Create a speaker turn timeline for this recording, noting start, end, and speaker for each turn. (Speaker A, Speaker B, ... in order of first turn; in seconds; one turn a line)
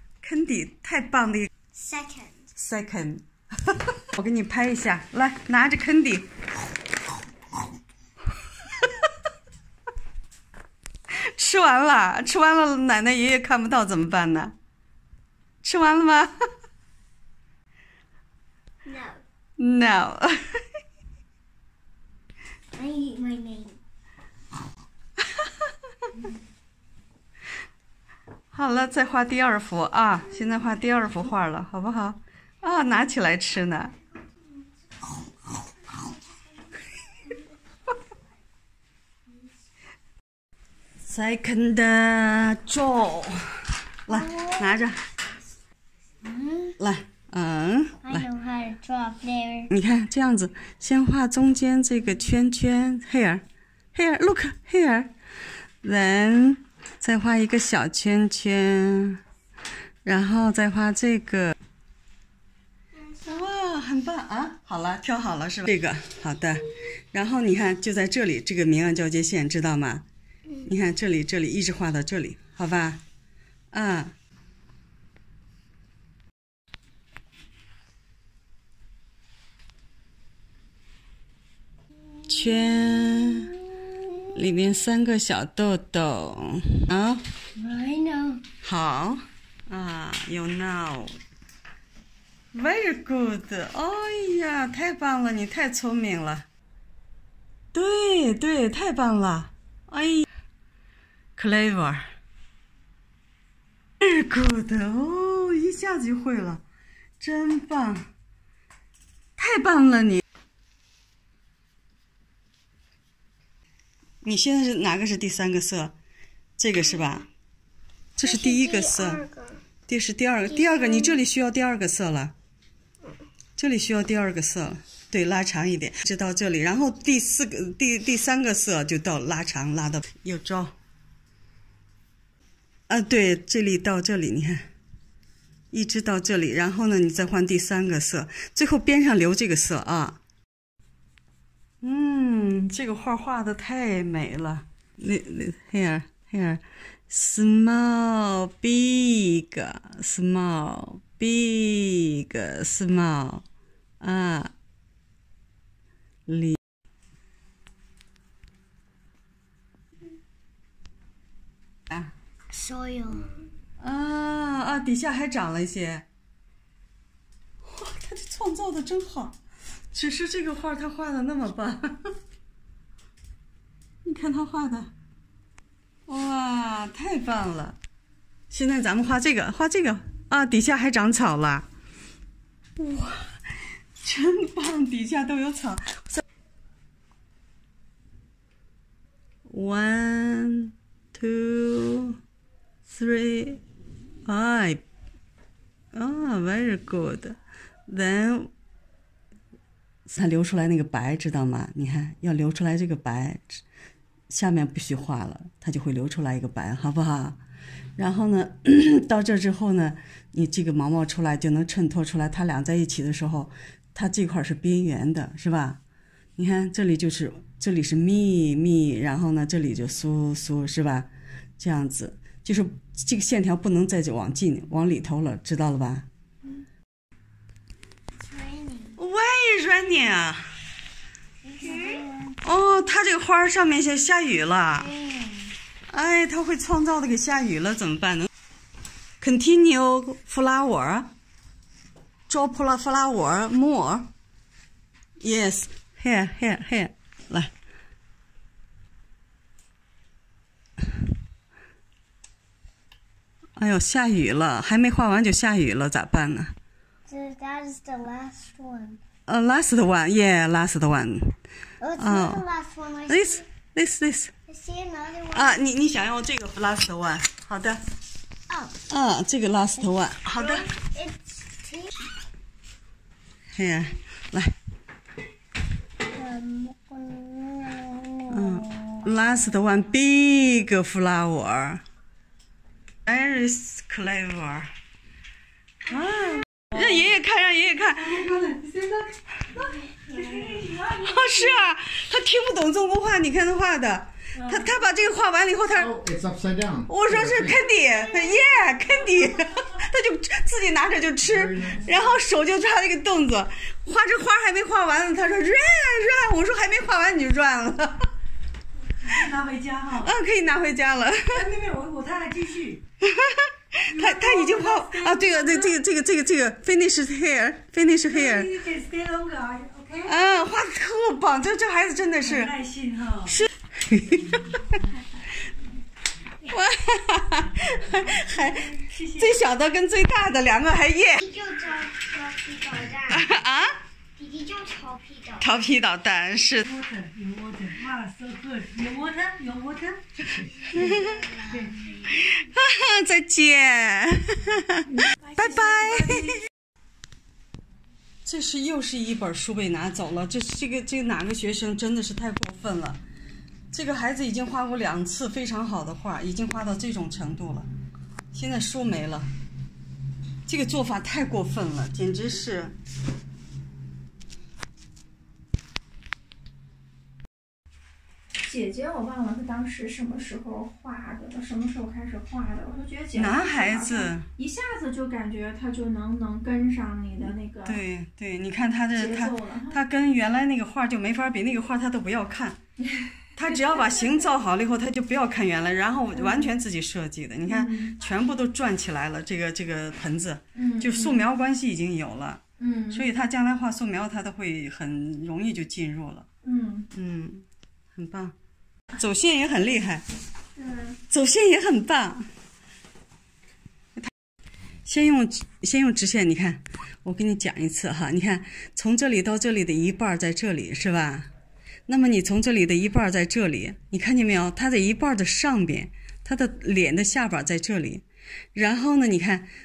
Speaker A: 0.2-1.5
Speaker B: 1.7-2.5
Speaker A: 2.5-6.3
Speaker A: 11.1-14.5
Speaker A: 15.6-16.5
Speaker B: 18.8-19.2
Speaker A: 19.6-20.6
Speaker B: 22.7-23.8
Speaker A: 25.2-25.5
Speaker A: 28.5-33.9
Speaker A: 41.0-45.0
Speaker B: 44.1-44.9
Speaker B: 46.2-46.8
Speaker A: 46.8-48.3
Speaker B: 48.0-49.7
Speaker A: 49.7-55.1
Speaker A: 55.8-59.2
Speaker A: 60.0-61.5
Speaker A: 63.2-70.0
Speaker A: 70.6-73.0
Speaker A: 73.7-74.1
Speaker A: 82.3-83.5
Speaker B: 83.6-84.1
Speaker A: 84.3-87.2
Speaker B: 87.5-88.4
Speaker A: 88.6-91.2
Speaker A: 92.5-96.5
Speaker A: 97.7-100.3
Speaker A: 101.3-102.0
Speaker A: 104.0-106.6
Speaker A: 107.2-108.1
Speaker A: 109.4-110.2
Speaker A: 114.2-115.9
Speaker A: 116.6-117.3
Speaker A: 118.2-119.2
Speaker B: 118.2-119.6
Speaker A: 119.9-122.3
Speaker B: 120.5-121.2
Speaker A: 123.6-130.8
Speaker A: 132.9-134.7
Speaker A: 135.7-140.2
Speaker A: 141.8-153.4
Speaker A: 154.0-154.5
Speaker A: 156.3-156.6
Speaker B: 162.5-163.5
Speaker A: 163.8-166.1
Speaker A: 167.6-169.4
Speaker A: 169.9-172.1
Speaker A: 174.0-174.9
Speaker A: 176.1-177.8
Speaker A: 178.5-181.7
Speaker A: 182.8-186.2
Speaker A: 189.5-192.2
Speaker A: 192.9-193.6
Speaker A: 194.2-194.8
Speaker A: 195.9-198.5
Speaker A: 200.1-203.6
Speaker A: 204.3-207.4
Speaker A: 208.0-215.8
Speaker A: 216.4-226.1
Speaker B: 228.2-229.0
Speaker A: 229.0-230.5
Speaker B: 231.4-232.4
Speaker A: 232.4-234.9
Speaker B: 234.7-235.6
Speaker A: 235.9-238.3
Speaker A: 239.2-241.1
Speaker A: 242.3-244.1
Speaker A: 245.2-247.5
Speaker A: 253.6-256.5
Speaker B: 257.1-259.0
Speaker A: 259.3-261.4
Speaker B: 261.8-263.4
Speaker A: 262.0-262.4
Speaker A: 263.1-264.3
Speaker B: 264.5-265.6
Speaker A: 265.3-267.8
Speaker B: 268.5-268.8
Speaker A: 268.9-270.7
Speaker B: 270.4-271.9
Speaker A: 273.5-274.5
Speaker B: 276.0-279.1
Speaker A: 278.3-281.8
Speaker A: 283.1-284.7
Speaker A: 285.9-289.6
Speaker C: 290.1-291.5
Speaker A: 290.3-308.1
Speaker B: 298.1-298.9
Speaker C: 309.0-310.1
Speaker A: 310.0-311.5
Speaker C: 311.3-312.8
Speaker A: 313.0-318.5
Speaker C: 313.9-315.8
Speaker C: 318.1-320.2
Speaker A: 320.0-322.5
Speaker C: 322.2-323.4
Speaker A: 323.3-324.6
Speaker A: 326.5-331.2
Speaker C: 328.8-329.4
Speaker B: 331.1-333.3
Speaker A: 333.1-333.8
Speaker B: 334.1-335.6
Speaker A: 335.4-336.7
Speaker C: 336.6-340.5
Speaker B: 340.6-342.1
Speaker A: 340.7-341.2
Speaker C: 341.4-342.0
Speaker A: 342.1-346.4
Speaker C: 345.0-346.4
Speaker A: 348.2-353.0
Speaker A: 353.7-357.7
Speaker A: 358.3-359.3
Speaker A: 360.4-362.7
Speaker D: 368.4-377.8
Speaker A: 373.1-374.3
Speaker A: 377.6-382.6
Speaker D: 378.9-379.8
Speaker D: 383.0-383.7
Speaker A: 383.3-396.3
Speaker D: 386.1-386.5
Speaker D: 387.5-387.9
Speaker D: 390.6-391.2
Speaker D: 392.6-393.1
Speaker D: 396.4-396.9
Speaker A: 396.9-398.3
Speaker A: 399.0-400.1
Speaker D: 400.6-400.9
Speaker A: 401.1-402.3
Speaker A: 404.9-411.3
Speaker A: 411.9-418.0
Speaker A: 418.5-419.5